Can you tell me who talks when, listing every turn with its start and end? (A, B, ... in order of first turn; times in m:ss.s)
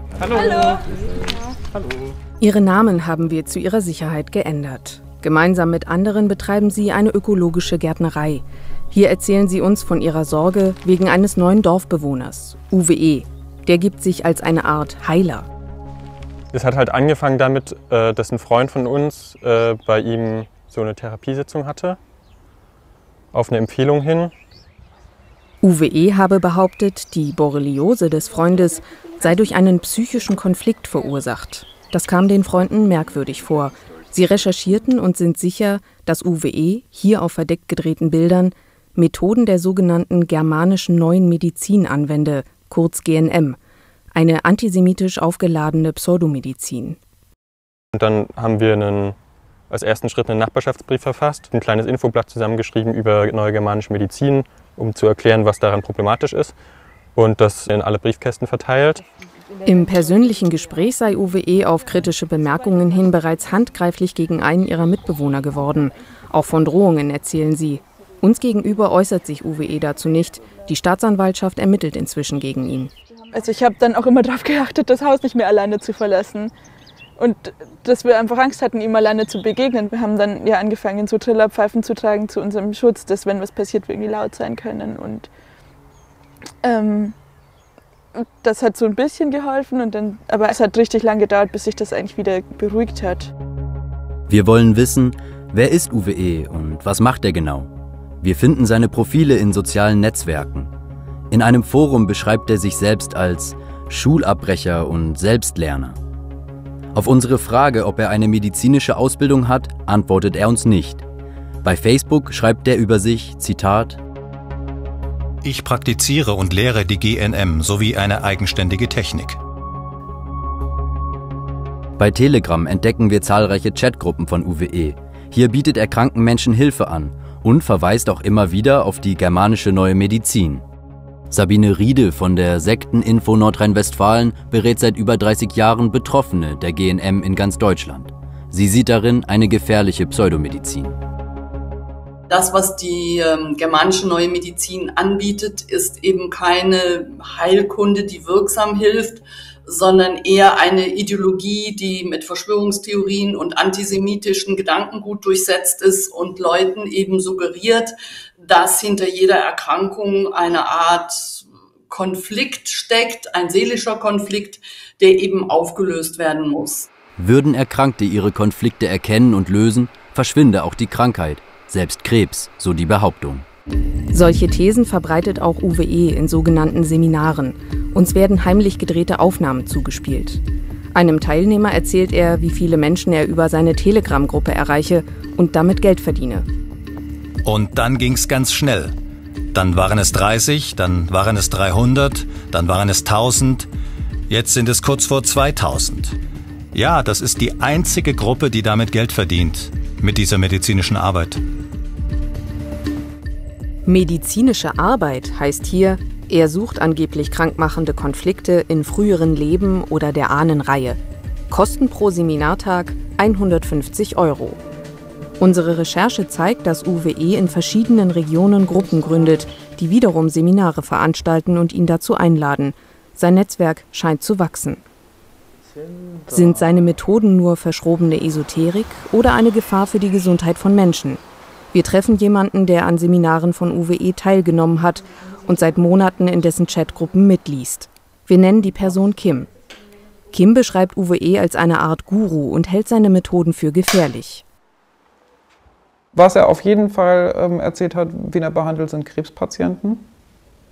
0:02.4-0:15.5 A
0:16.5-0:22.0 B
0:23.3-0:24.3 B
0:25.6-0:43.6 A
0:44.1-0:47.0 A
0:47.9-0:49.2 B
0:49.7-0:56.5 B
0:57.2-0:59.0 B
0:59.6-1:12.9 A
1:13.3-1:16.5 C
1:17.2-1:25.3 C
1:26.6-1:27.2 C
1:28.1-1:33.3 C
1:34.3-1:37.7 D
1:38.2-1:40.7 D
1:41.3-1:46.0 D
1:46.9-1:51.0 D
1:51.6-1:54.0 D
1:55.4-1:59.4 E
2:02.0-2:10.6 D
2:11.3-2:20.9 D
2:22.3-2:37.9 F
2:38.4-2:46.9 F
2:47.2-2:53.4 D
2:54.1-3:00.4 A
3:00.9-3:06.4 A
3:07.4-3:08.9 E
3:09.5-3:13.7 E
3:14.3-3:16.2 E
3:16.7-3:21.4 E
3:23.8-3:31.0 A
3:31.5-3:34.6 A
3:35.4-3:44.8 A
3:46.3-3:51.2 A
3:51.7-3:59.5 A
4:00.3-4:04.4 A
4:06.1-4:10.1 G